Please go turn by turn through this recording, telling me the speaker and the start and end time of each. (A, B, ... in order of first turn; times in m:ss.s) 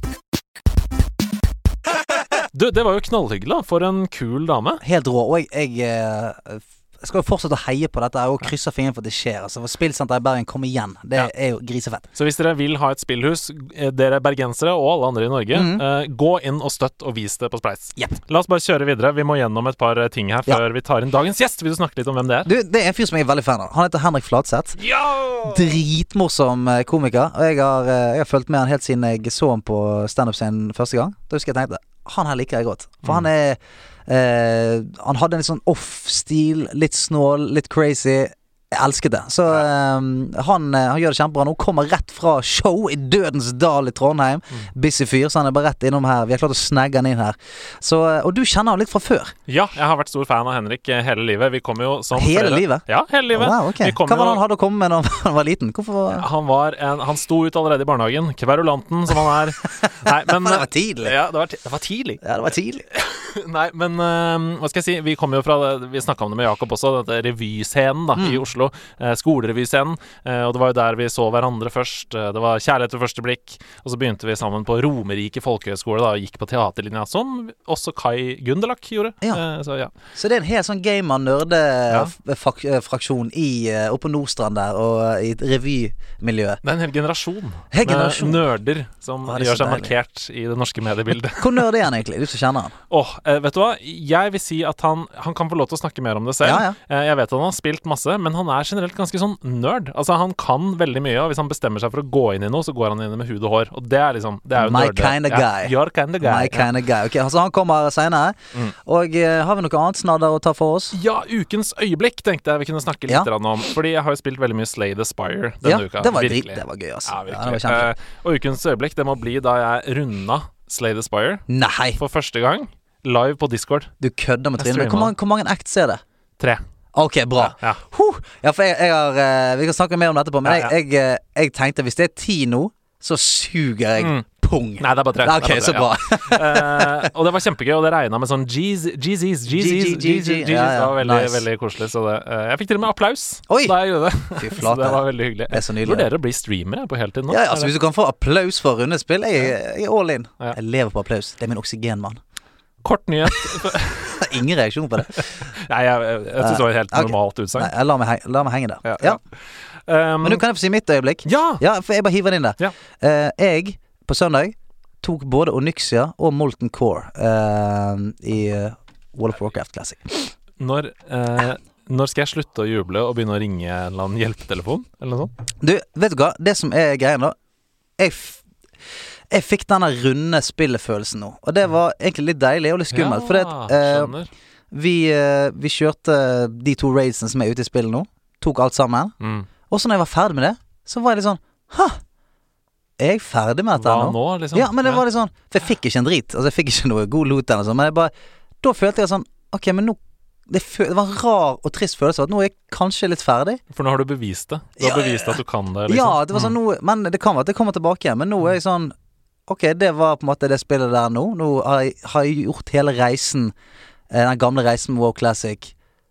0:02.5-0:04.8 A
0:04.8-0:12.0 B
0:12.2-0:22.5 A
0:15.5-0:15.8 B
0:22.4-0:24.8 B
0:24.9-0:25.4 A
0:25.4-0:49.3 B
0:49.5-0:54.4 A
0:52.2-0:56.3 B
0:56.1-1:02.2 A
1:00.1-1:01.2 B
1:02.2-1:02.8 B
1:02.9-1:19.9 A
1:08.2-1:08.4 B
1:20.2-1:26.6 B
1:26.6-1:31.7 A
1:27.7-1:28.4 B
1:29.2-1:29.9 B
1:31.4-1:32.7 B
1:32.9-1:46.7 A
1:36.4-1:36.8 B
1:44.6-1:51.0 B
1:50.9-2:01.4 A
1:55.6-1:57.9 B
2:01.5-2:02.0 B
2:02.0-2:03.9 A
2:04.0-2:06.0 B
2:04.6-2:05.1 A
2:06.9-2:17.1 B
2:07.4-2:07.8 A
2:10.4-2:10.7 A
2:14.0-2:14.2 A
2:14.8-2:27.7 A
2:19.5-2:21.4 B
2:23.5-2:23.8 B
2:24.4-2:26.1 B
2:27.3-2:32.2 B
2:32.8-2:34.3 A
2:34.2-2:35.2 B
2:35.2-2:37.7 A
2:36.4-2:39.2 B
2:38.8-2:40.4 A
2:40.2-2:50.3 B
2:41.3-2:41.6 A
2:50.6-2:55.3 A
2:55.6-2:57.4 B
2:58.0-2:58.4 B
2:59.3-3:04.1 B
3:02.9-3:04.3 A
3:04.7-3:09.2 B
3:09.2-3:09.5 A
3:09.7-3:12.0 B
3:13.0-3:23.6 B
3:13.8-3:15.0 A
3:23.7-3:26.5 A
3:24.8-3:28.9 B
3:29.5-3:33.5 B
3:34.1-3:35.7 B